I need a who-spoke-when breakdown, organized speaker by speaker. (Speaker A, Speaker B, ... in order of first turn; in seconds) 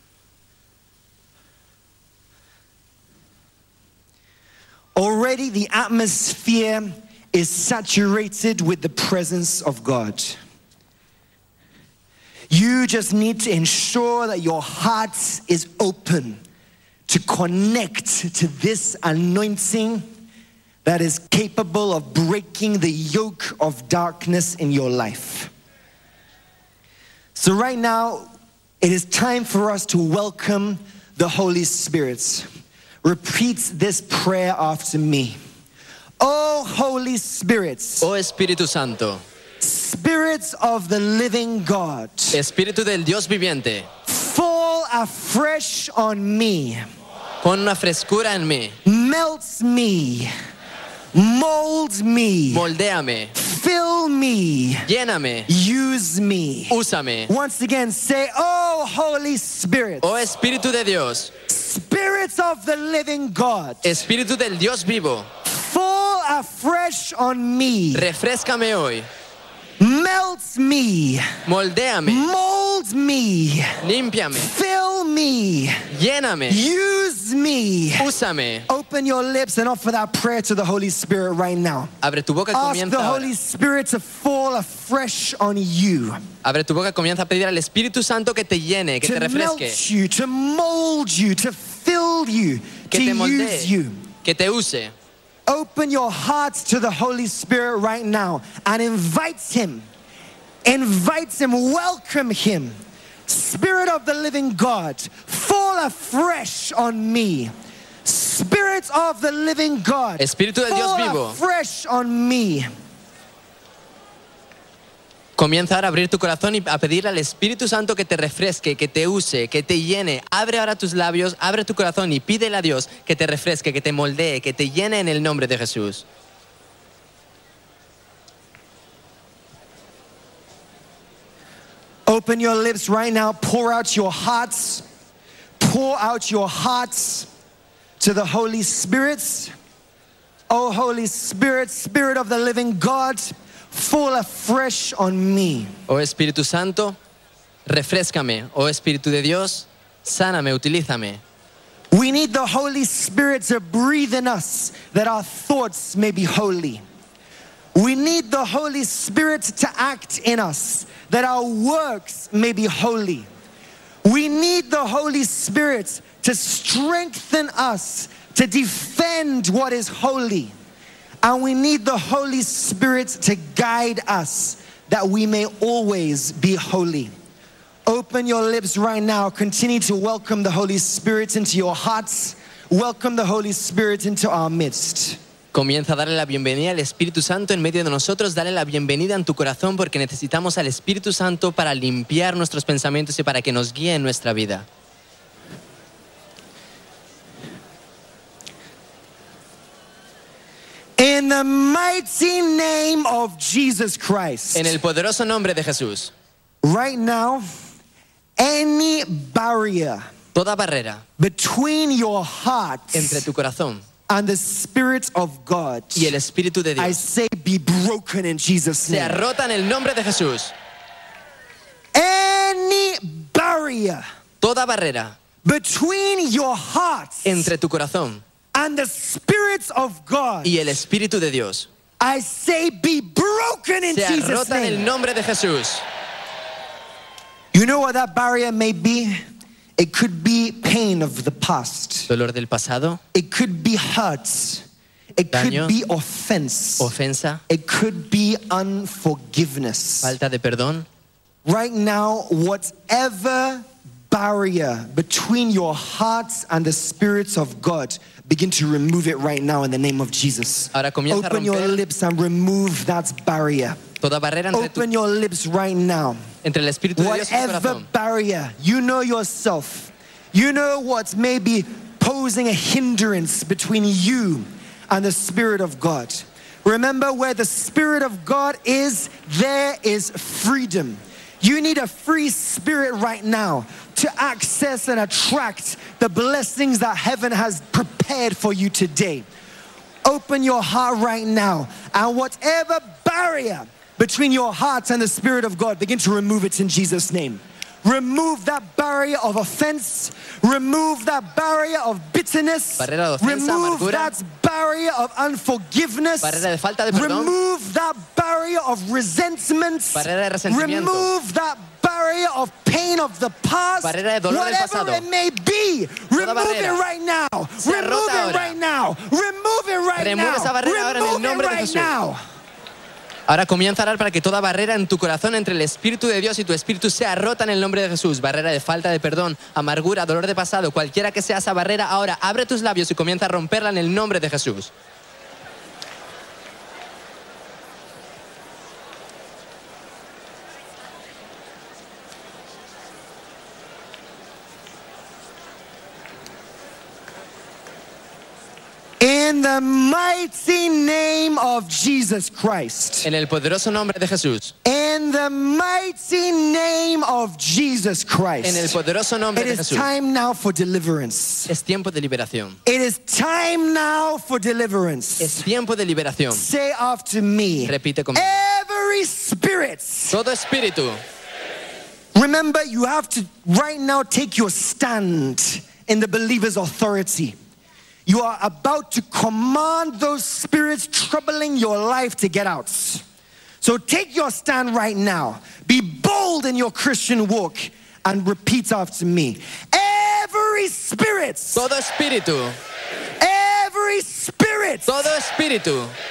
Speaker A: 5.0-10.4, 12.5-16.4, 17.1-20.1, 20.9-25.5, 27.4-28.3, 28.8-32.5, 33.0-35.4, 36.2-38.1, 39.6-42.4, 44.1-46.8, 48.9-50.3, 51.1-52.7, 53.4-54.9, 55.5-60.1, 61.5-63.8, 65.5-68.1, 69.8-71.3, 72.0-73.8, 74.3-75.8, 76.5-78.1, 78.7-81.9, 82.5-86.2, 89.0-94.1, 95.5-99.9, 100.7-107.5, 108.0-112.7, 132.1-134.8, 135.6-137.3, 138.0-139.5, 140.5-145.7, 151.9-156.8, 157.8-163.3, 164.0-170.5, 171.2-177.1, 177.9-185.2, 201.0-204.8, 206.6-207.4, 208.4-210.1, 211.2-213.2, 214.1-216.2, 216.8-219.2, 221.9-224.0, 225.4-227.5, 228.5-230.7, 232.0-234.9, 237.5-239.2, 239.8-242.1, 243.1-244.6, 245.2-246.9, 247.5-250.2, 251.4-263.9, 264.5-266.2, 267.0-289.3, 290.1-322.2, 349.0-353.1, 354.6-358.8, 359.4-361.5, 362.6-365.5, 366.3-370.2, 372.1-377.4, 378.1-383.0, 383.6-391.7, 393.2-395.1
Speaker B: 38.0-39.2, 42.3-43.9, 47.4-48.8, 52.5-53.3, 54.9-55.5, 56.7-57.3, 60.0-61.3, 63.8-65.3, 67.9-69.1, 71.5-72.3, 73.8-74.5, 75.9-76.7, 78.0-78.7, 82.0-83.3, 86.4-89.8, 92.9-93.7, 94.2-94.9, 110.2-111.4, 115.4-126.0, 145.9-147.0, 147.7-151.2, 185.5-194.7, 204.5-206.1, 210.3-211.0, 212.9-213.9, 215.9-217.0, 218.8-220.5, 224.4-225.2, 227.2-228.2, 230.4-231.7, 233.9-235.8, 242.1-243.0, 245.3-245.7, 246.8-247.4, 250.0-250.9, 260.7-261.8, 264.0-264.9, 266.4-267.9, 302.8-304.1, 306.2-307.3, 309.9-311.1, 313.8-315.1, 316.2-316.8, 317.6-318.6, 320.0-321.9, 323.3-334.7, 353.0-354.5, 358.4-359.9, 361.5-362.6, 365.2-366.4, 367.7-368.4, 370.1-371.0, 391.5-392.6, 394.9-395.9